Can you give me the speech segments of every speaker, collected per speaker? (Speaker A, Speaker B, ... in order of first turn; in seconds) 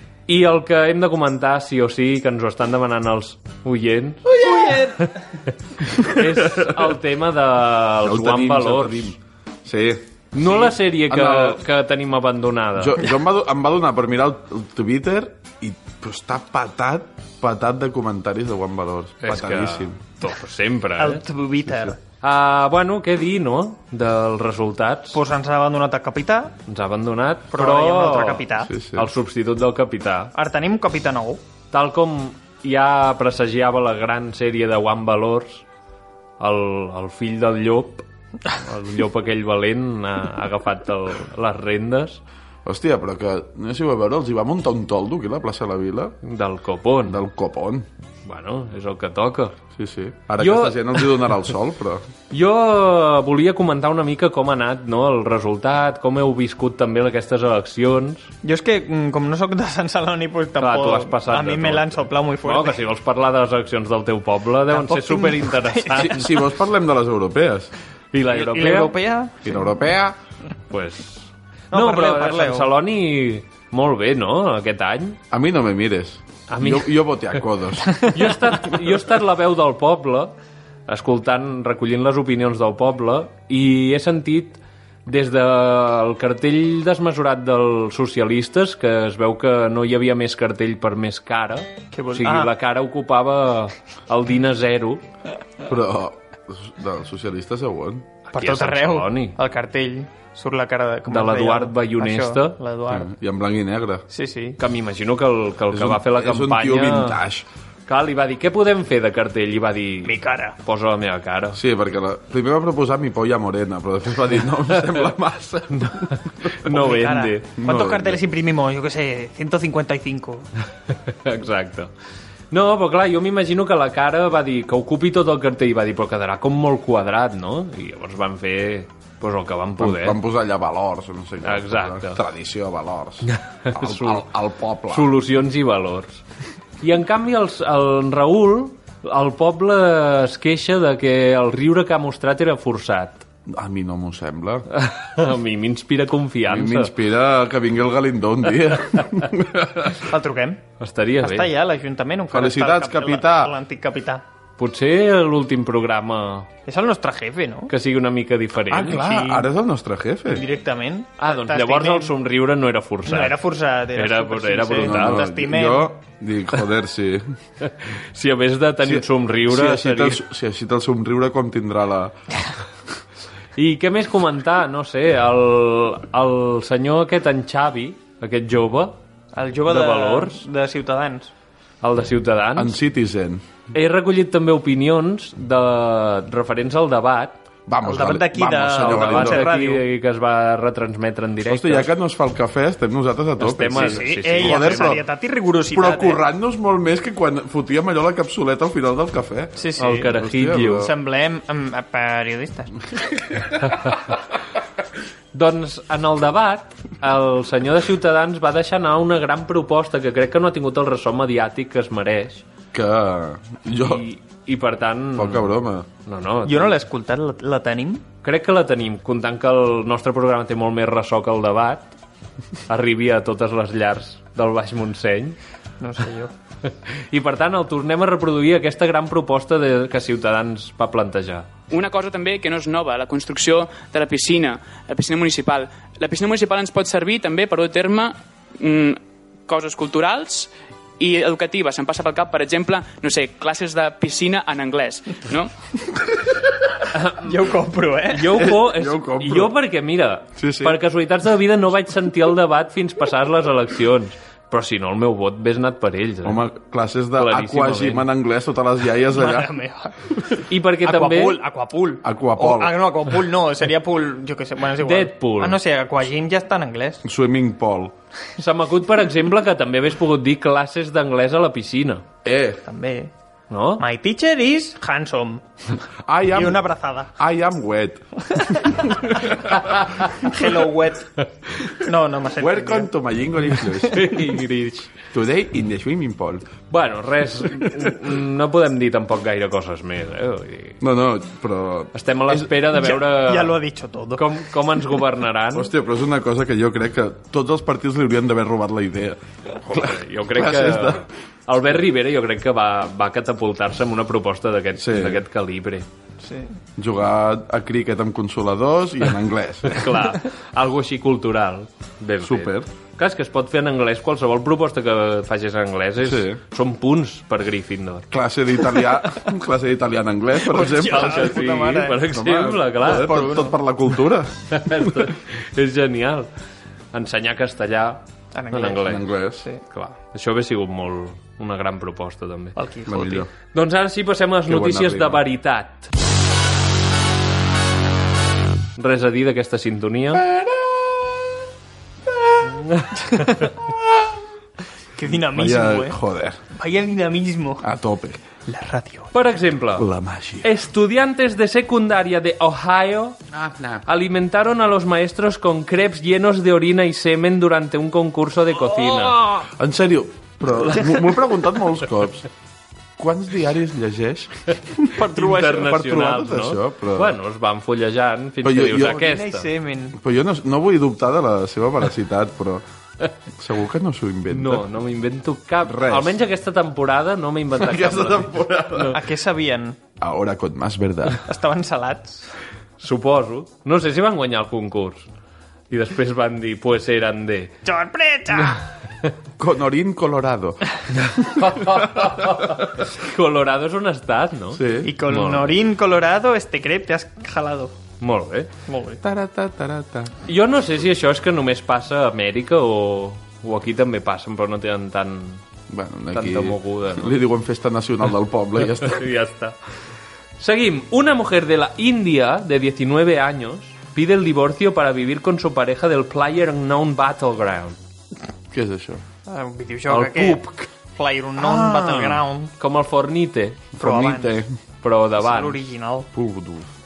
Speaker A: 0.3-4.4, 5.9-9.2, 10.3-13.0, 19.2-21.2, 22.2-25.2, 26.7-30.3, 31.7-35.6, 36.4-38.0, 38.5-42.2, 46.2-47.2, 48.2-49.6, 50.4-51.1, 52.3-58.3, 60.6-66.3, 68.1-69.0, 70.7-75.2, 76.5-77.0, 78.0-80.3, 80.9-95.0, 98.3-99.4, 101.1-102.6, 104.6-107.2, 107.9-111.6, 115.8-117.5, 121.1-121.9, 122.5-130.2, 131.4-132.2, 133.2-134.3, 134.9-136.2, 136.8-143.2, 144.7-146.9, 150.8-151.5, 154.6-156.5, 157.7-159.2, 161.2-163.4, 163.9-165.3, 167.6-170.2, 173.6-179.0, 179.7-180.5, 181.8-182.8, 183.7-187.4, 188.6-191.9, 193.4-195.0, 199.8-200.9, 203.7-204.0, 205.3-212.4, 213.8-216.8, 218.2-221.9, 222.7-225.4, 227.1-231.5, 246.9-247.3, 248.1-256.4, 257.2-258.1, 260.5-261.4, 264.8-265.6, 268.4-272.1, 273.5-273.8, 279.5-279.9, 283.8-284.9, 286.7-290.8, 291.9-293.6, 294.1-295.7, 299.7-305.9, 309.7-318.1, 320.6-323.4, 324.5-326.3, 326.9-329.1, 329.7-332.6, 333.5-335.9, 338.8-340.3, 342.4-343.4, 349.1-349.9, 350.4-353.2, 353.9-359.3, 365.1-369.5, 374.3-378.9, 382.8-385.1, 385.7-387.6, 391.1-395.6, 398.0-398.5, 400.3-405.4, 406.1-407.2, 408.8-409.6, 410.4-417.8, 419.9-420.7, 422.6-423.8, 424.8-425.7
Speaker B: 4.3-5.2, 21.0-22.0, 25.1-26.6, 27.5-28.7, 30.4-31.4, 58.4-62.8, 64.7-66.2, 68.3-69.5, 71.7-72.7, 91.9-92.5, 98.3-103.1, 104.1-104.6, 110.0-110.5, 116.7-120.5, 150.0-150.6, 151.2-154.2, 156.7-157.7, 158.9-159.5, 160.3-162.1, 163.1-165.9, 179.3-181.3, 187.8-189.8, 193.8-196.2, 199.6-200.1, 200.8-202.7, 216.4-218.1, 225.8-226.3, 247.2-248.3, 259.1-259.9, 260.8-267.0, 272.6-273.1, 273.8-275.4, 276.3-277.1, 280.2-281.1, 281.8-282.9, 292.7-294.3, 306.2-306.6, 320.5-322.1, 323.0-323.5, 328.3-328.9, 332.6-333.2, 345.0-346.0, 346.5-347.6, 348.5-349.1, 364.9-365.6, 368.8-370.0, 378.9-379.8, 381.2-382.3, 387.6-388.6, 394.8-397.8, 398.7-399.0, 419.3-420.4, 420.9-422.5, 423.8-424.4, 425.2-426.1
Speaker C: 8.1-11.6, 12.8-20.0, 28.6-29.1, 42.6-46.1, 47.0-47.9, 49.8-52.0, 65.9-67.7, 69.4-70.2, 75.3-78.6, 95.7-98.1, 102.9-104.0, 105.7-107.5, 111.5-116.2, 117.6-118.2, 129.8-135.1, 143.5-144.7, 146.5-150.0, 152.3-153.5, 158.7-160.4, 164.8-167.3, 168.8-172.2, 182.6-183.4, 187.7-189.5, 191.4-195.0, 195.7-200.9, 212.7-214.1, 215.2-215.9, 248.4-249.6, 250.4-250.8, 256.2-259.5, 262.0-262.8, 267.0-267.9, 272.2-272.6, 276.1-278.0, 282.4-284.1, 285.1-286.5, 290.8-292.4, 295.5-301.1, 304.8-305.2, 306.8-309.9, 312.2-312.7, 316.0-316.4, 318.1-321.4, 322.1-325.1, 328.8-329.5, 332.9-333.3, 334.5-335.2, 345.3-346.4, 347.6-348.2, 349.8-350.5, 353.3-353.8, 359.0-362.3, 363.0-364.5, 365.2-367.1, 368.4-369.0, 370.0-372.6, 373.4-374.6, 375.6-376.2, 377.6-379.0, 380.0-381.2, 389.4-390.6, 391.7-392.1, 394.5-394.9, 399.0-400.1, 405.7-409.0, 418.5-419.0, 421.4-422.2, 423.8-424.5, 426.1-426.7
Speaker D: 231.7-245.5